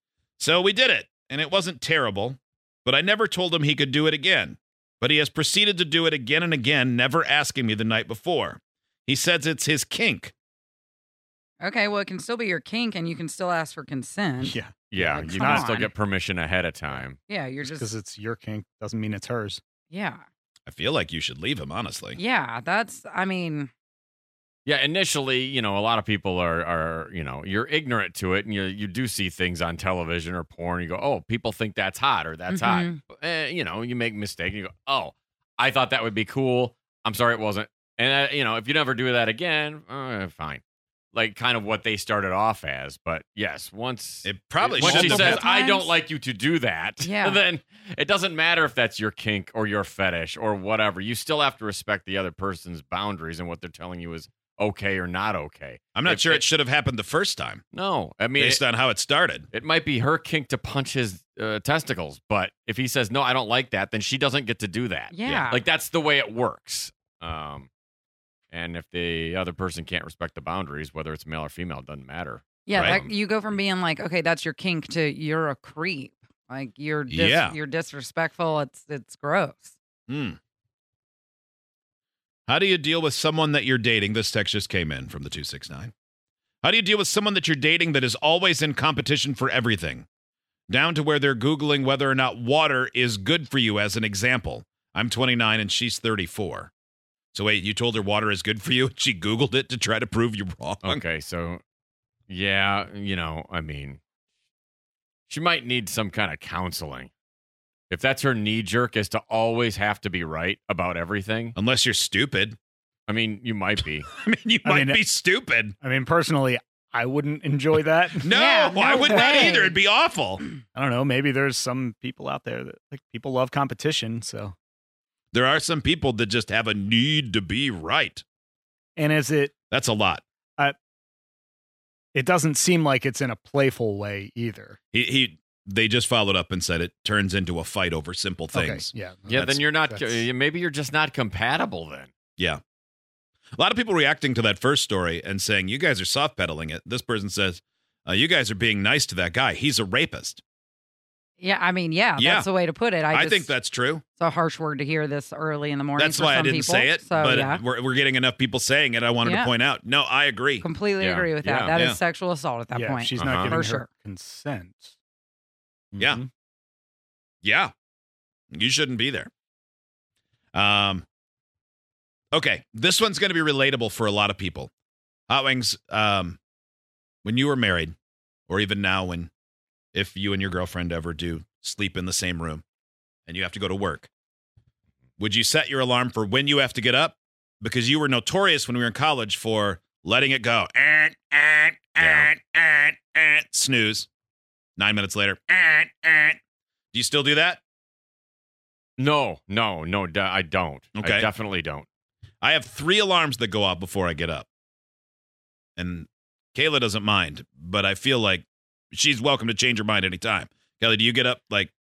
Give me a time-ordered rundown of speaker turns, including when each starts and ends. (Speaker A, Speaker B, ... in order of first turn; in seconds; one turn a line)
Speaker A: 0.4-10.3
Speaker B: 11.6-15.9
Speaker C: 14.4-15.7
Speaker D: 14.9-17.2
Speaker B: 17.3-17.9
Speaker C: 17.6-19.6
Speaker B: 19.9-20.2
Speaker A: 20.7-22.2
Speaker B: 22.2-23.7
Speaker D: 24.6-40.6
Speaker B: 32.5-33.0
Speaker D: 41.1-56.5
Speaker A: 44.2-45.4
Speaker B: 44.8-45.9
Speaker B: 47.0-47.4
Speaker A: 55.9-57.6
Speaker D: 57.7-58.6
Speaker A: 58.4-59.5
Speaker D: 59.5-67.7
Speaker B: 65.1-65.6
Speaker D: 68.5-73.1
Speaker B: 72.7-79.7
Speaker A: 72.7-73.0
Speaker A: 77.1-77.5
Speaker A: 80.1-80.4
Speaker A: 82.5-85.9
Speaker A: 86.6-90.0
Speaker A: 90.7-96.7
Speaker A: 97.3-101.0
Speaker D: 100.8-101.6
Speaker D: 102.3-104.0
Speaker D: 105.3-107.1
Speaker D: 107.9-111.5
Speaker A: 111.5-112.5
Speaker D: 113.1-114.1
Speaker A: 114.1-115.7
Speaker C: 114.6-115.0
Speaker C: 115.8-118.3
Speaker A: 118.2-120.5
Speaker B: 118.3-119.8
Speaker C: 118.8-119.3
Speaker C: 120.7-124.5
Speaker A: 125.3-128.2
Speaker C: 128.9-129.5
Speaker A: 129.7-130.2
Speaker C: 132.1-134.8
Speaker A: 134.9-138.9
Speaker C: 138.5-140.2
Speaker D: 139.3-142.1
Speaker A: 143.6-150.4
Speaker B: 151.4-153.5
Speaker A: 152.2-152.5
Speaker A: 153.1-154.0
Speaker B: 154.2-157.6
Speaker A: 156.0-160.6
Speaker B: 159.2-159.5
Speaker B: 160.6-163.9
Speaker D: 161.0-161.7
Speaker A: 161.7-162.0
Speaker C: 162.7-164.9
Speaker D: 163.2-163.6
Speaker C: 165.9-166.2
Speaker A: 166.0-166.2
Speaker A: 167.4-167.7
Speaker A: 168.5-169.3
Speaker A: 170.5-171.0
Speaker A: 172.3-174.7
Speaker A: 175.3-176.4
Speaker A: 177.2-177.9
Speaker A: 178.5-179.3
Speaker A: 179.9-182.6
Speaker A: 183.2-184.1
Speaker A: 185.2-194.1
Speaker D: 192.0-192.3
Speaker A: 194.8-196.4
Speaker A: 196.9-197.6
Speaker D: 199.0-201.8
Speaker A: 200.9-201.3
Speaker A: 202.4-204.5
Speaker A: 205.8-211.7